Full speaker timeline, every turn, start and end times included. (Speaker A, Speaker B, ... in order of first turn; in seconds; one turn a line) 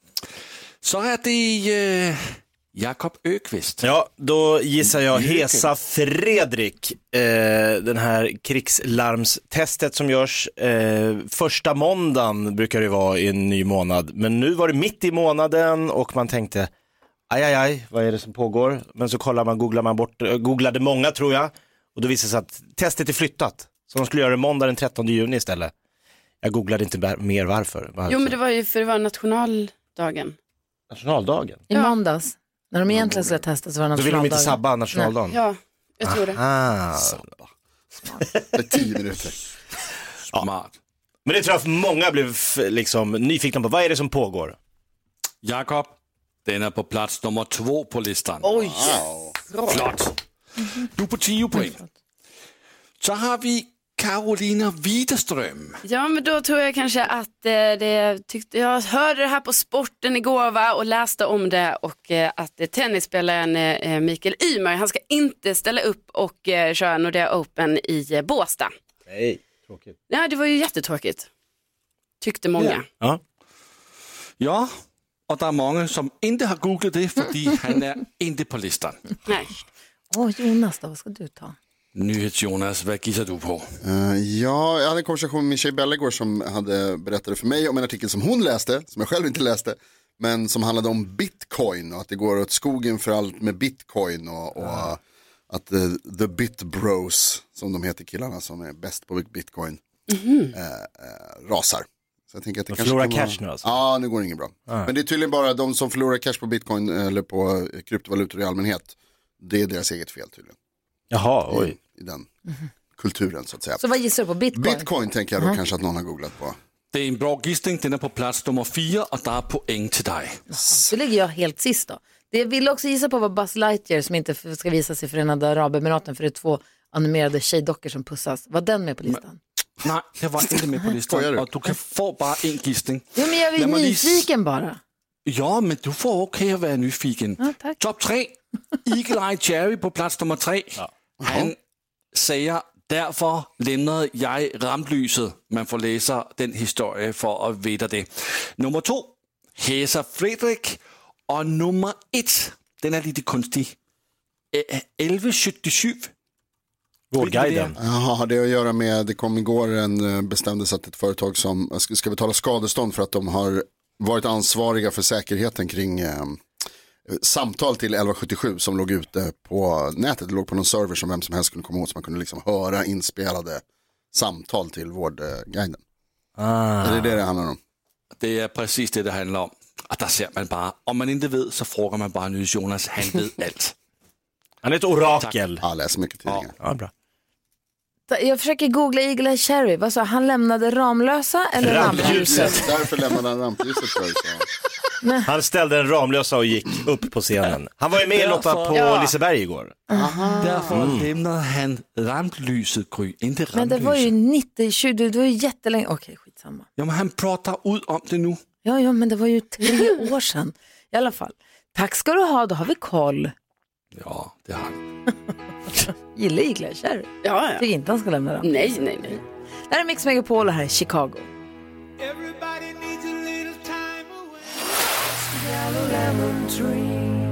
Speaker A: 0.8-3.9
Speaker B: 3.8-16.7
Speaker A: 5.0-5.7
Speaker B: 17.3-25.7
Speaker B: 26.4-28.4
Speaker C: 28.1-30.4
Speaker B: 30.9-31.6
Speaker D: 31.7-35.1
Speaker E: 32.9-33.4
Speaker B: 34.0-35.4
Speaker C: 35.3-36.4
Speaker B: 36.0-37.3
Speaker E: 37.1-37.4
Speaker E: 38.5-39.4
Speaker A: 40.3-40.7
Speaker B: 41.2-44.6
Speaker A: 45.4-48.8
Speaker E: 48.5-49.4
Speaker A: 49.7-50.1
Speaker A: 50.8-51.8
Speaker A: 53.0-55.8
Speaker C: 55.9-68.7
Speaker B: 69.1-70.0
Speaker C: 70.1-71.3
Speaker C: 72.2-72.9
Speaker B: 72.6-73.2
Speaker A: 74.4-74.7
Speaker A: 75.3-79.0
Speaker D: 80.1-81.6
Speaker A: 82.0-83.6
Speaker E: 83.8-99.8
Speaker C: 100.1-100.5
Speaker E: 100.5-110.5
Speaker B: 102.7-103.7
Speaker B: 111.1-111.8
Speaker E: 111.5-112.3
Speaker E: 113.0-113.8
Speaker D: 113.8-114.9
Speaker E: 114.5-116.6
Speaker A: 116.9-120.4
Speaker D: 120.5-129.4
Speaker A: 129.8-134.3
Speaker E: 131.0-131.5
Speaker D: 133.2-134.8
Speaker A: 135.3-141.6
Speaker D: 137.4-137.8
Speaker E: 141.2-141.5
Speaker A: 142.1-153.8
Speaker A: 154.5-156.1
Speaker B: 157.1-157.7
Speaker A: 157.2-157.7
Speaker E: 157.8-166.4
Speaker E: 167.1-175.8
Speaker B: 176.4-177.2
Speaker E: 176.8-177.6
Speaker A: 178.2-183.7
Speaker B: 184.6-185.6
Speaker E: 185.6-186.5
Speaker B: 186.6-186.9
Speaker D: 188.1-192.7
Speaker B: 191.6-192.7
Speaker E: 191.7-194.5
Speaker D: 195.0-195.3
Speaker B: 195.2-199.8
Speaker A: 198.1-198.8
Speaker C: 198.7-199.2
Speaker D: 199.9-200.6
Speaker E: 199.9-200.9
Speaker A: 200.4-204.1
Speaker B: 200.7-201.1
Speaker D: 203.5-206.7
Speaker A: 206.8-208.4
Speaker D: 208.6-213.3
Speaker A: 213.9-214.8
Speaker D: 215.9-219.2
Speaker C: 217.2-217.6
Speaker C: 218.4-219.2
Speaker D: 219.7-221.3
Speaker D: 225.5-227.0